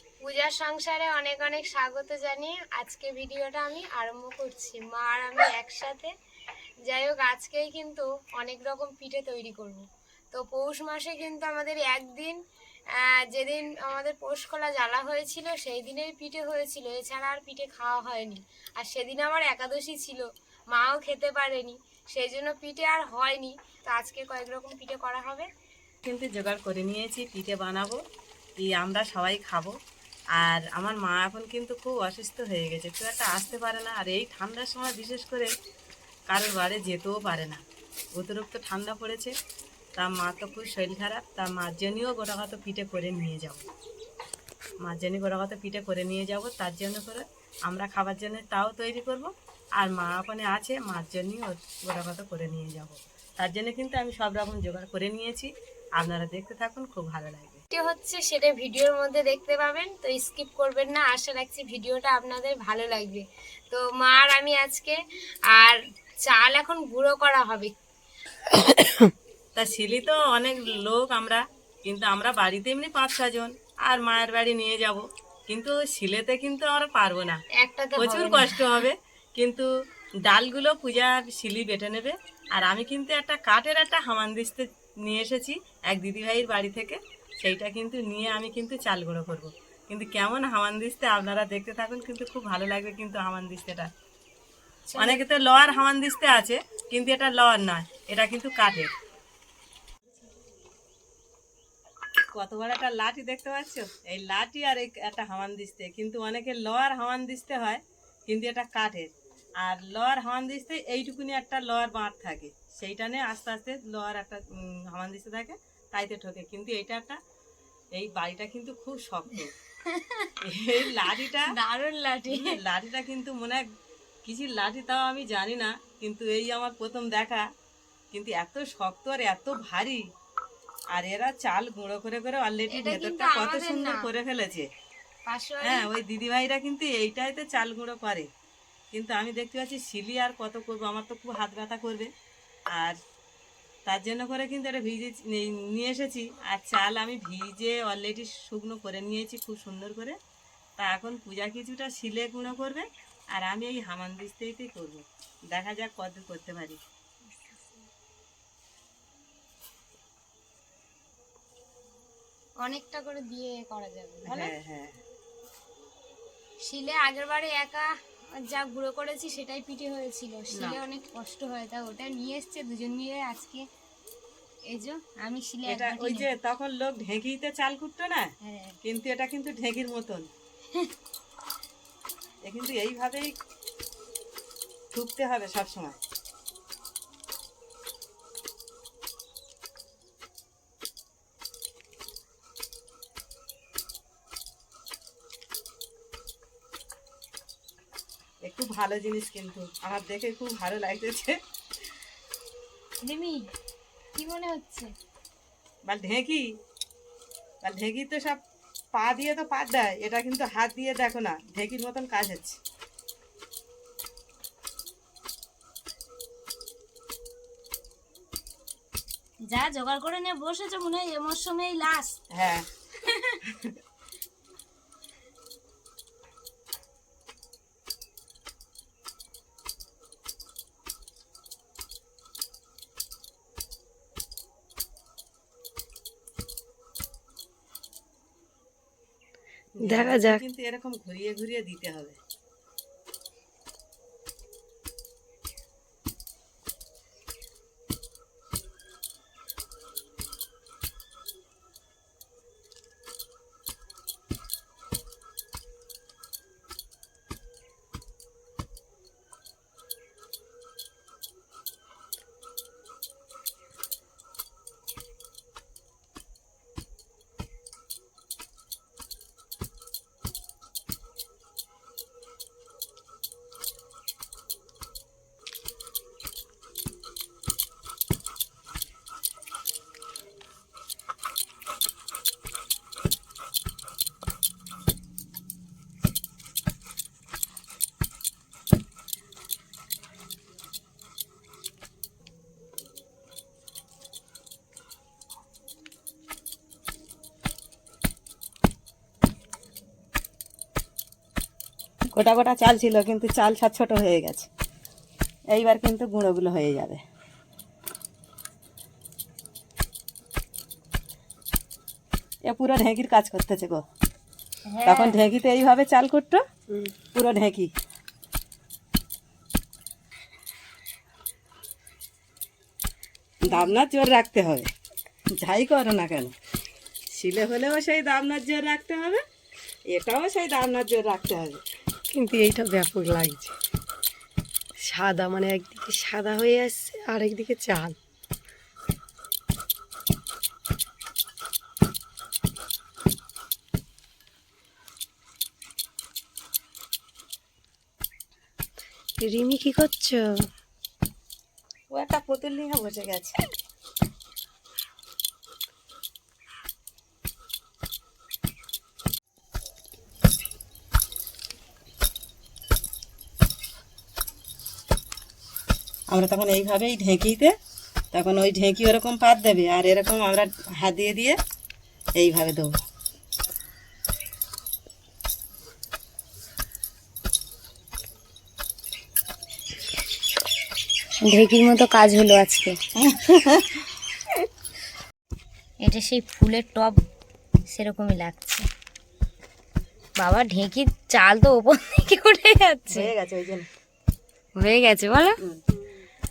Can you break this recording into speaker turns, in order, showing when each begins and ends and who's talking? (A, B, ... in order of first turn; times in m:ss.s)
0:00.2-0:06.1 A
0:06.8-0:25.5 A
0:26.0-0:28.0 B
0:28.6-0:29.8 B
0:30.3-0:35.5 B
0:36.3-0:37.6 B
0:38.1-0:39.3 B
0:40.0-0:43.6 B
0:44.8-0:57.6 B
0:57.7-1:05.0 A
1:05.5-1:07.8 A
1:08.5-1:09.1 C
1:09.5-1:17.4 B
1:17.5-1:18.8 A
1:18.0-1:19.7 B
1:20.2-1:33.9 B
1:34.9-1:35.2 A
1:35.0-1:38.9 B
1:42.3-1:57.2 B
1:57.9-1:59.5 B
1:59.8-2:00.3 A
2:00.4-2:01.5 B
2:00.9-2:02.6 A
2:02.3-2:03.7 B
2:04.2-2:07.5 B
2:08.1-2:10.0 B
2:10.9-2:14.7 B
2:12.7-2:14.1 A
2:15.3-2:15.9 A
2:15.6-2:18.3 B
2:18.9-2:22.1 B
2:22.7-2:23.0 B
2:23.8-2:30.2 B
2:30.8-2:36.8 B
2:42.6-2:44.5 A
2:44.2-2:45.0 B
2:46.6-2:53.6 A
2:50.5-2:50.8 B
2:54.7-2:56.3 A
2:55.6-3:00.3 B
2:58.4-2:58.8 A
3:02.4-3:03.4 B
3:04.9-3:06.0 B
3:18.4-3:21.4 B
3:23.0-3:23.5 A
3:24.1-3:24.9 A
3:25.8-3:26.5 B
3:27.6-3:28.4 B
3:28.9-3:32.6 B
3:39.5-3:42.2 A
3:42.3-3:42.7 B
3:43.0-3:43.4 A
3:43.4-3:43.8 B
3:59.8-4:02.2 B
3:59.8-4:00.4 C
5:02.1-5:04.5 B
5:05.5-5:07.0 B
5:12.4-5:13.8 B
5:14.7-5:15.2 A
5:14.8-5:16.4 B
5:17.1-5:17.7 B
5:23.4-5:24.7 B
5:25.3-5:26.3 B
5:27.1-5:29.2 B
5:29.9-5:31.6 B
5:32.1-5:33.5 C
5:34.8-5:38.0 C
5:49.2-5:50.4 C
5:51.9-5:53.4 B
6:06.1-6:07.6 B
6:08.1-6:11.4 B
6:12.2-6:12.8 B
6:21.2-6:22.8 A
6:22.9-6:23.8 B
6:25.8-6:27.0 A
6:27.7-6:28.6 A
6:30.2-6:33.1 A
6:32.9-6:33.7 B
6:34.6-6:35.4 A